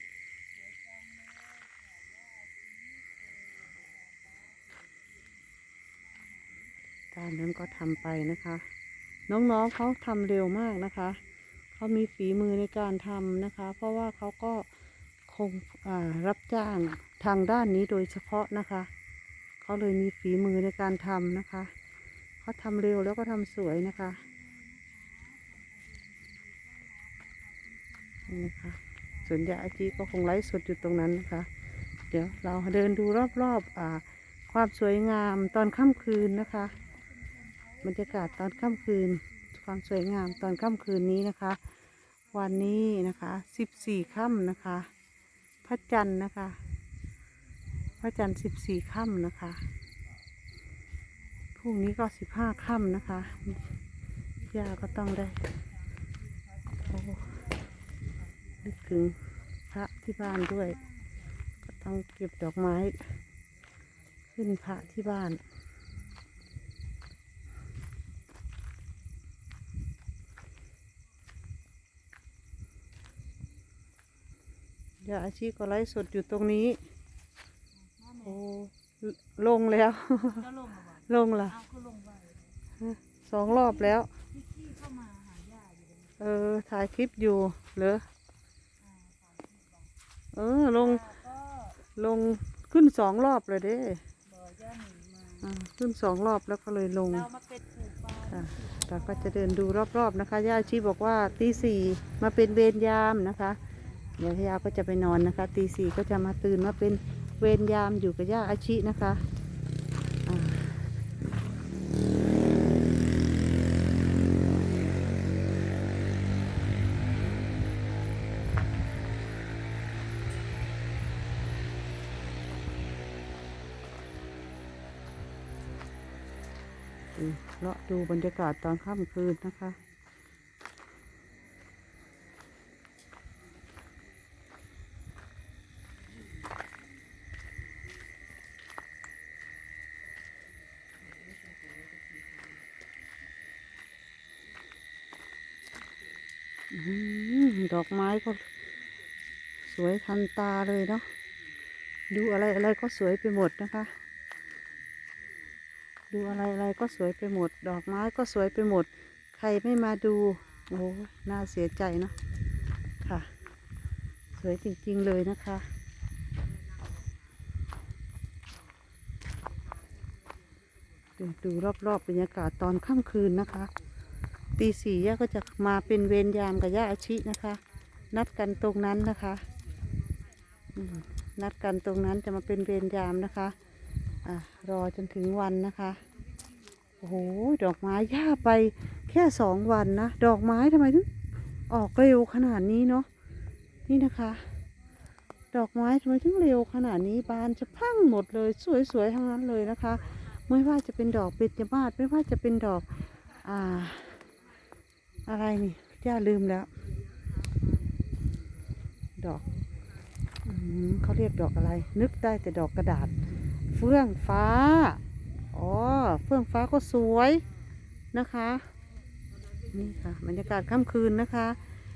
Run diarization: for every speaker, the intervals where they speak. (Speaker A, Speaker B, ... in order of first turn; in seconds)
Speaker A: 7.1-8.6, 9.3-11.2, 11.7-14.7, 15.3-18.9, 19.6-21.7, 22.4-24.2, 28.3-31.5, 32.1-36.8, 37.8-41.6, 42.3-44.9, 45.6-46.6, 48.0-49.6, 51.6-53.6, 54.5-55.5, 56.9-57.4, 58.6-60.8, 61.7-63.0, 64.3-65.4, 75.0-76.8, 78.2-81.7, 82.8-84.1, 86.2-88.0, 90.3-91.2, 91.8-94.0, 95.4-97.3, 98.2-103.6, 104.1-109.2, 110.2-110.7, 127.2-129.8, 146.7-148.4, 149.6-151.0, 152.1-153.9, 156.1-162.1, 163.0-163.3, 164.4-165.7, 171.2-173.7, 174.6-177.6, 178.1-179.4, 180.7-183.6, 184.2-186.0, 187.0-191.1, 191.7-193.1, 193.9-194.5, 195.5-202.9, 203.4-204.2, 205.2-206.7, 209.2-209.4, 210.4-213.2, 213.7-215.0, 215.5-217.4, 218.1-218.7, 219.7-221.6
Speaker B: 81.8-82.2, 84.6-85.9, 94.4-95.3, 97.7-98.0, 141.2-142.4